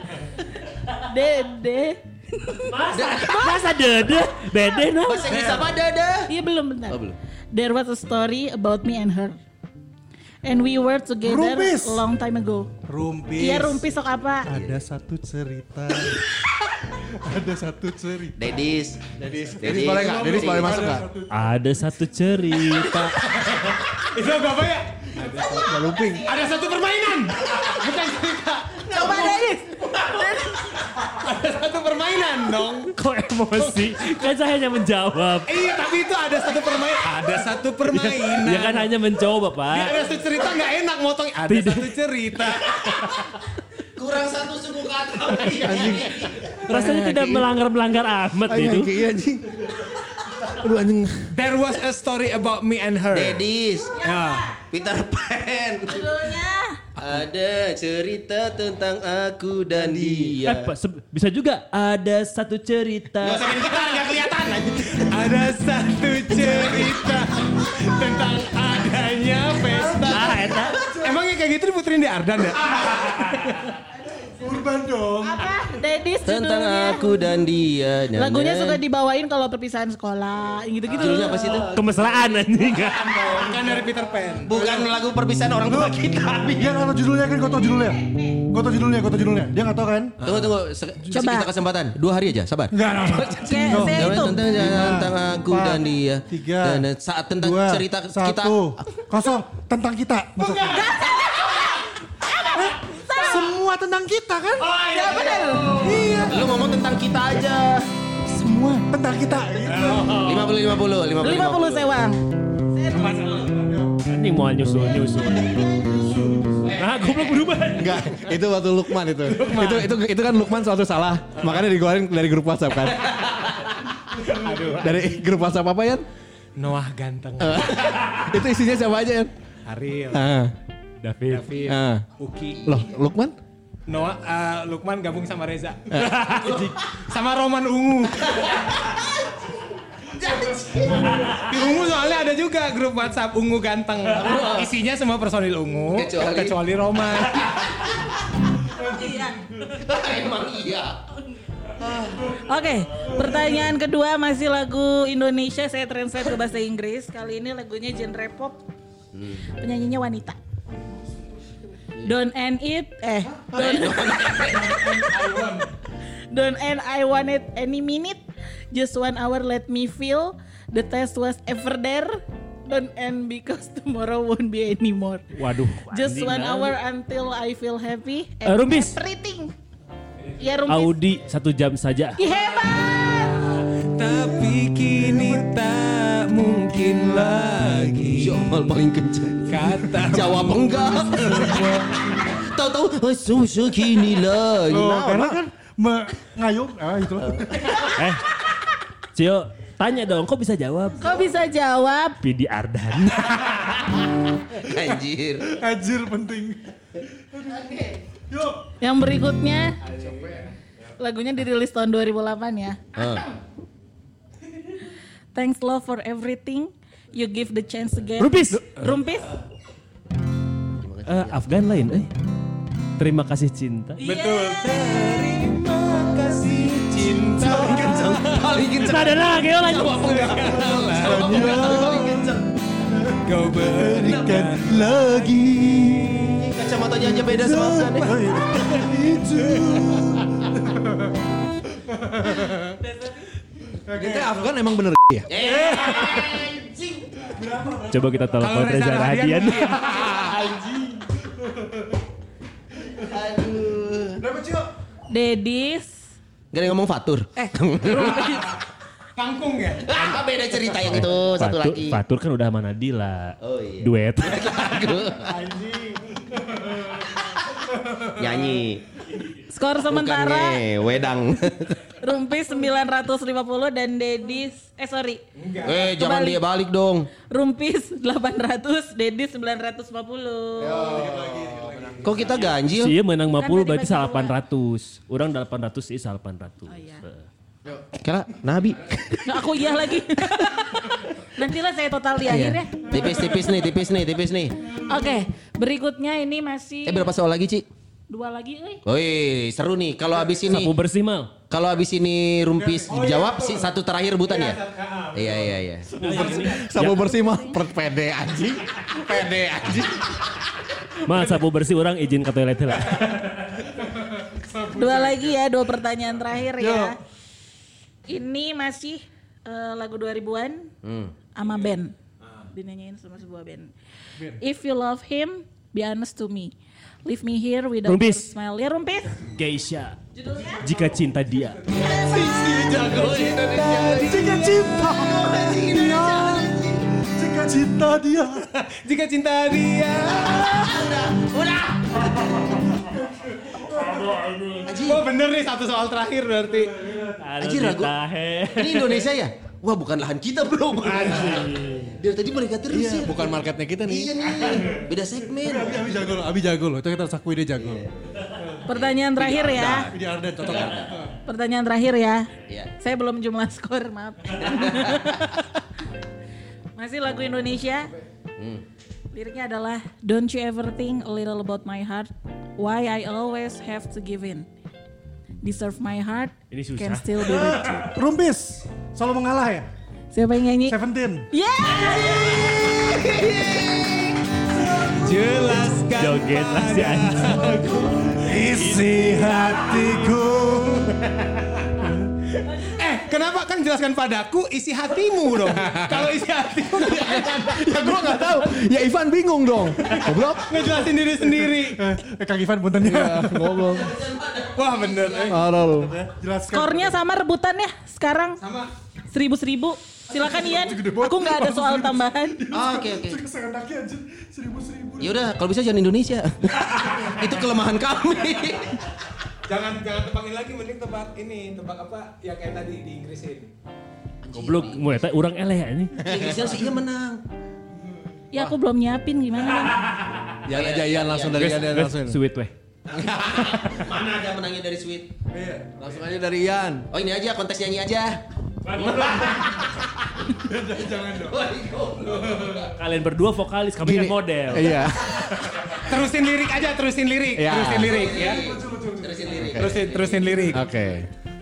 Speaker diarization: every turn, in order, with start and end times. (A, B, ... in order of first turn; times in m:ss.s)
0:00.9-0:03.6 A
0:02.6-0:05.4 B
0:02.9-0:03.5 C
0:05.1-0:05.3 A
0:05.1-0:06.3 C
0:05.3-0:05.7 D
0:06.3-0:07.0 A
0:06.9-0:07.2 C
0:07.5-0:09.4 A
0:10.4-0:12.7 A
0:11.2-0:12.0 D
0:12.8-0:13.8 D
0:13.4-0:14.5 A
0:14.5-0:16.3 D
0:14.5-0:14.8 C
0:17.0-0:18.4 D
0:18.4-0:19.0 C
0:19.2-0:21.1 E
0:19.3-0:21.4 D
0:19.6-0:20.8 C
0:21.3-0:23.1 B
0:22.8-0:29.5 F
0:25.2-0:26.3 E
0:28.8-0:30.8 A
0:30.9-0:33.0 F
0:32.9-0:35.7 B
0:33.5-0:33.9 F
0:35.5-0:38.9 F
0:37.9-0:40.0 B
0:39.7-0:43.2 F
0:41.5-0:41.9 B
0:44.0-0:46.4 C
0:45.6-0:47.4 E
0:46.7-0:48.9 B
0:48.4-0:51.3 E
0:51.3-0:54.5 F
0:53.1-0:54.0 C
0:54.0-0:54.6 A
0:54.7-0:56.3 C
0:55.9-0:56.8 A
0:57.0-1:00.7 C
0:59.8-1:00.3 D
1:00.4-1:03.5 B
1:03.2-1:05.2 C
1:03.3-1:13.7 F
1:06.5-1:06.8 C
1:09.6-1:11.2 D
1:10.1-1:10.8 B
1:14.2-1:15.5 D
1:15.2-1:17.2 A
1:16.2-1:18.8 C
1:18.1-1:21.7 A
1:20.9-1:23.5 C
1:21.7-1:23.3 B
1:23.1-1:24.9 F
1:24.4-1:26.8 C
1:25.7-1:26.0 D
1:26.5-1:30.2 D
1:28.0-1:28.3 A
1:30.2-1:38.7 C
1:31.1-1:31.5 A
1:32.7-1:36.9 D
1:33.4-1:34.4 A
1:37.4-1:40.8 D
1:40.4-1:41.7 F
1:40.7-1:43.5 A
1:42.6-1:44.7 D
1:44.6-1:46.3 F
1:44.8-1:45.9 A
1:45.8-1:46.5 D
1:46.1-1:47.9 C
1:48.3-1:48.8 A
1:48.9-1:50.2 D
1:49.7-1:50.5 F
1:50.0-1:50.6 B
1:50.1-1:51.9 C
1:51.2-1:53.5 A
1:52.9-1:53.8 F
1:53.6-1:53.9 D
1:54.0-1:55.7 B
1:55.8-1:56.8 D
1:56.7-1:58.3 B
1:56.8-1:57.4 F
1:57.7-2:03.2 E
1:59.2-1:59.9 F
2:04.2-2:05.1 F
2:04.8-2:06.1 E
2:06.6-2:08.0 F
2:07.4-2:09.3 E
2:09.6-2:10.2 F
2:10.1-2:10.5 E
2:11.0-2:12.8 F
2:11.5-2:12.0 E
2:12.6-2:13.4 E
2:13.9-2:18.8 F
2:15.9-2:16.2 E
2:16.4-2:16.7 C
2:20.2-2:21.2 C
2:20.9-2:27.6 F
2:24.1-2:24.7 C
2:25.9-2:26.6 C
2:28.8-2:29.4 A
2:29.6-2:31.0 C
2:31.8-2:32.1 C
2:32.3-2:38.6 A
2:39.1-2:39.4 C
2:39.6-2:40.4 A
2:42.0-2:44.4 A
2:43.5-2:45.1 C
2:44.5-2:45.7 F
2:46.3-2:55.3 A
2:55.3-2:56.8 B
2:55.9-2:59.5 A
2:58.4-2:59.0 B
3:00.2-3:00.5 F
3:00.4-3:01.0 A
3:00.7-3:02.2 B
3:02.2-3:03.4 A
3:03.6-3:08.4 F
3:04.1-3:04.4 D
3:08.1-3:15.4 C
3:09.5-3:11.8 F
3:14.7-3:17.8 D
3:17.9-3:18.2 B
3:19.1-3:21.2 B
3:21.0-3:22.2 A
3:22.2-3:23.8 B
3:24.6-3:25.6 C
3:25.6-3:26.7 D
3:27.3-3:28.6 D
3:28.8-3:29.8 A
3:31.0-3:32.8 A
3:33.0-3:33.3 C
3:35.3-3:39.4 A
3:38.2-3:38.8 B
3:40.8-3:41.5 C
3:41.0-3:42.1 B
3:43.0-3:44.0 B
3:44.0-3:48.6 F
3:44.0-3:45.3 A
3:47.3-3:48.2 D
3:47.5-3:52.5 C
3:48.6-3:50.5 B
3:50.1-3:51.2 F
3:51.0-3:52.4 D
3:53.1-3:56.5 D
3:53.2-3:55.3 F
3:56.3-3:58.2 C
3:57.0-4:01.0 D
4:01.9-4:02.8 D
4:03.8-4:04.4 D
4:03.9-4:05.3 E
4:05.3-4:07.3 C
4:05.4-4:06.1 D
4:07.3-4:08.5 D
4:07.9-4:10.0 B
4:08.4-4:11.0 F
4:11.4-4:11.8 D
4:13.0-4:14.2 C
4:14.2-4:14.7 D
4:15.1-4:16.0 A
4:16.5-4:18.4 C
4:17.4-4:18.5 A
4:19.2-4:20.0 F
4:19.8-4:22.0 C
4:20.0-4:24.6 B
4:23.4-4:25.4 C
4:25.2-4:27.1 F
4:27.7-4:28.6 F
4:28.1-4:28.8 C
4:29.5-4:30.6 A
4:29.8-4:31.8 C
4:32.0-4:35.2 A
4:35.4-4:36.0 F
4:35.6-4:37.1 C
4:35.9-4:36.4 A
4:37.3-4:40.9 A
4:40.6-4:42.5 E
4:40.6-4:42.5 D
4:42.0-4:43.0 C
4:42.6-4:47.3 B
4:43.4-4:44.3 A
4:46.7-4:47.0 A
4:48.0-4:49.8 C
4:49.2-4:53.5 A
4:52.2-4:54.6 C
4:54.8-4:57.1 A
4:56.8-4:57.6 C
4:58.1-4:58.8 A
4:58.8-5:00.8 C
5:00.4-5:01.3 B
5:01.5-5:04.6 C
5:02.6-5:06.4 F
5:05.1-5:05.9 C
5:06.0-5:07.1 B
5:06.0-5:10.0 E
5:09.1-5:10.1 C
5:11.0-5:13.3 B
5:13.0-5:15.2 F
5:14.7-5:17.0 A
5:16.6-5:17.0 D
5:18.1-5:20.7 A
5:20.8-5:21.1 C
5:21.3-5:22.0 A
5:22.5-5:23.7 A
5:24.4-5:29.2 A
5:27.8-5:28.3 B
5:29.3-5:30.0 B
5:30.1-5:30.7 A
5:30.6-5:31.6 B
5:31.7-5:34.7 F
5:31.7-5:32.7 A
5:31.8-5:36.9 C
5:32.2-5:32.6 D
5:34.0-5:36.5 D
5:37.0-5:38.4 D
5:38.5-5:40.9 F
5:40.0-5:42.5 C
5:42.8-5:44.2 D
5:43.7-5:46.8 F
5:44.6-5:45.0 C
5:46.5-5:47.2 D
5:47.2-5:49.1 B
5:47.4-5:47.9 C
5:48.6-5:56.1 C
5:50.8-5:52.0 F
5:52.7-5:54.2 E
5:55.4-5:57.9 D
5:57.6-6:01.0 C
5:58.4-5:58.6 D
5:58.7-5:59.9 A
5:59.6-6:01.1 D
6:01.2-6:05.4 A
6:04.4-6:05.4 C
6:06.8-6:07.9 A
6:08.4-6:08.6 C
6:09.1-6:14.5 A
6:15.4-6:17.9 A
6:16.5-6:17.8 B
6:17.2-6:19.7 D
6:20.1-6:20.8 A
6:20.7-6:21.3 D
6:21.3-6:22.7 A
6:22.0-6:24.2 C
6:24.8-6:25.5 D
6:24.9-6:28.1 F
6:25.9-6:28.8 B
6:28.1-6:31.1 D
6:31.2-6:38.4 F
6:32.4-6:33.3 A
6:36.9-6:40.6 E
6:39.9-6:41.8 F
6:40.6-6:43.7 D
6:42.8-6:44.0 E
6:43.6-6:45.4 C
6:44.5-6:45.4 F
6:45.2-6:45.9 E
6:45.6-6:47.0 D
6:46.5-6:48.4 A
6:48.4-6:48.7 F
6:49.1-6:52.4 A
6:50.1-6:55.3 D
6:52.5-6:53.2 C
6:55.0-6:58.8 C
6:59.4-7:03.5 F
7:04.2-7:05.0 C
7:04.3-7:06.0 B
7:06.0-7:07.2 C
7:08.3-7:09.8 A
7:10.4-7:12.2 E
7:10.5-7:11.7 C
7:11.4-7:12.5 B
7:12.9-7:15.2 C
7:15.3-7:16.0 D
7:15.8-7:16.9 E
7:16.9-7:22.7 C
7:20.4-7:21.4 D
7:22.1-7:22.7 D
7:22.8-7:24.9 B
7:23.8-7:25.3 E
7:25.7-7:28.4 F
7:27.3-7:28.0 E
7:27.6-7:30.4 C
7:28.1-7:29.5 D
7:29.3-7:29.7 E
7:29.6-7:30.6 F
7:30.5-7:31.1 E